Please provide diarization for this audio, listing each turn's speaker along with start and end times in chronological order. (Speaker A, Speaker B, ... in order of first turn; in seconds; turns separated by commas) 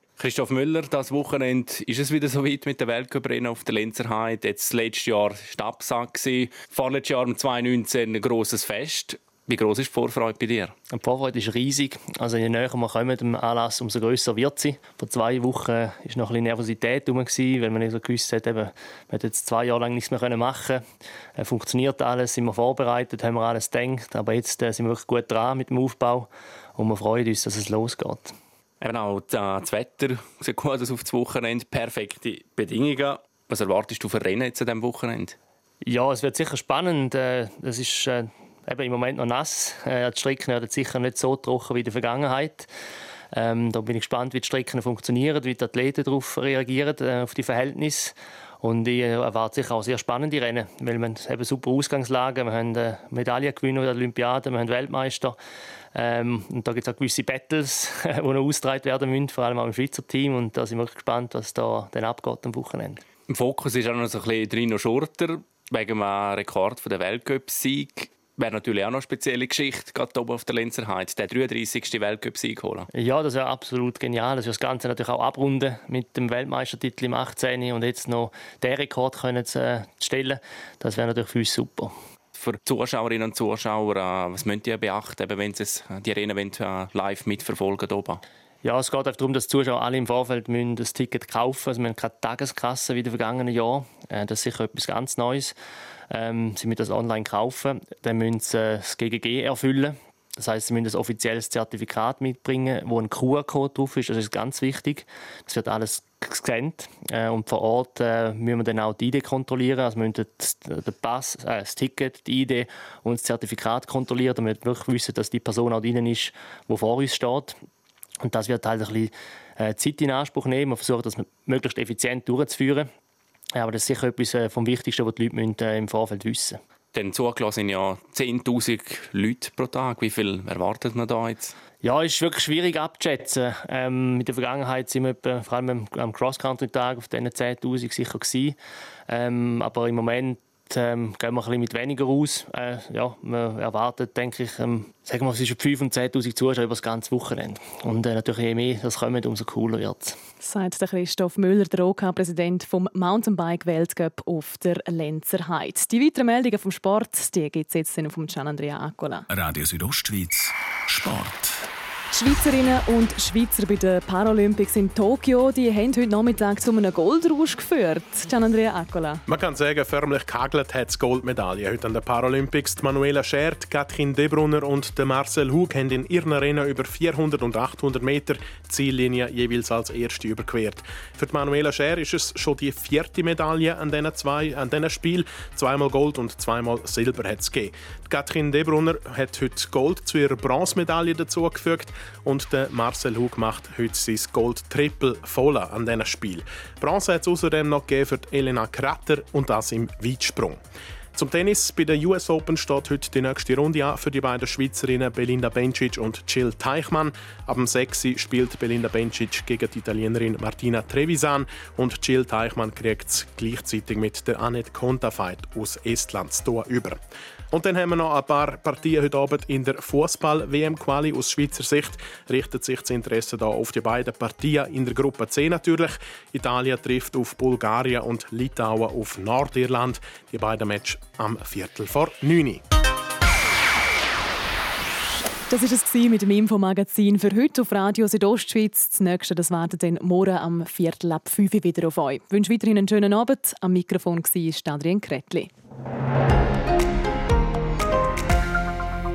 Speaker A: 0.2-10.7, Speaker B: 10.9-20.9, Speaker B: 21.4-28.4, Speaker A: 28.8-35.4, Speaker B: 35.8-42.7, Speaker B: 43.3-55.4, Speaker B: 56.0-63.0, Speaker A: 63.3-72.9, Speaker B: 72.9-81.9, Speaker A: 82.3-88.2, Speaker B: 88.6-95.6, Speaker B: 96.1-117.6, Speaker B: 118.2-122.9, Speaker B: 123.5-126.6, Speaker A: 126.9-131.6, Speaker B: 131.8-138.6, Speaker B: 139.1-150.2, Speaker C: 150.4-159.3, Speaker D: 159.3-161.7, Speaker C: 162.1-169.2, Speaker E: 169.3-200.6, Speaker E: 201.2-232.6, Speaker C: 235.5-245.5